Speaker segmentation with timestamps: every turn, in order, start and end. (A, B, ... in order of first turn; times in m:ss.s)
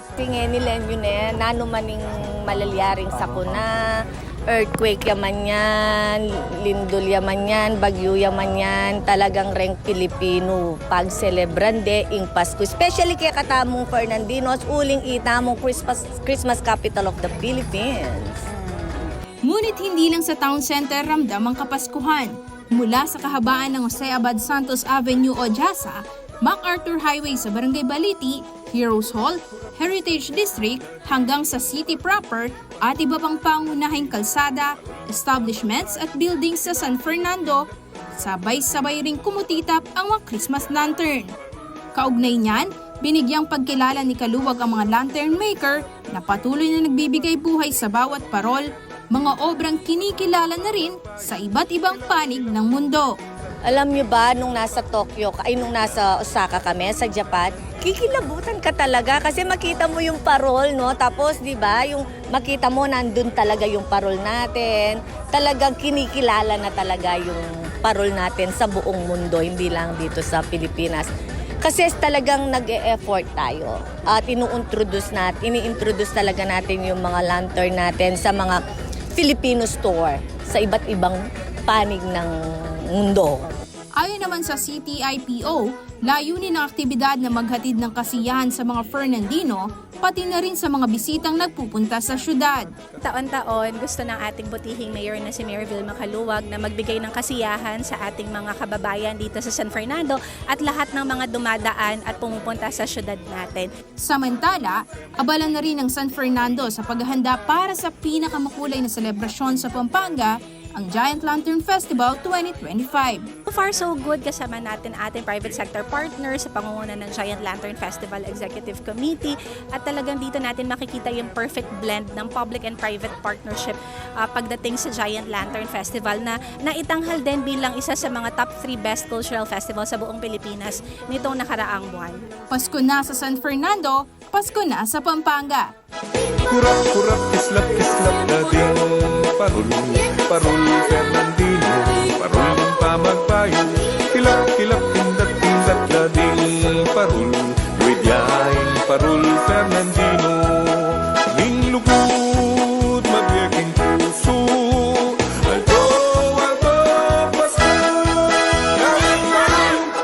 0:00.2-0:04.0 A
0:04.5-0:19.0 A
0:19.4-0:41.4 B
0:41.9-0:53.1 B
0:53.7-1:11.1 A
1:11.6-1:18.6 A
1:19.2-1:23.5 A
1:24.0-1:32.7 B
1:33.0-1:43.7 C
1:44.0-1:53.3 B
1:53.5-2:12.2 C
2:12.5-2:15.7 B
2:16.5-2:40.0 D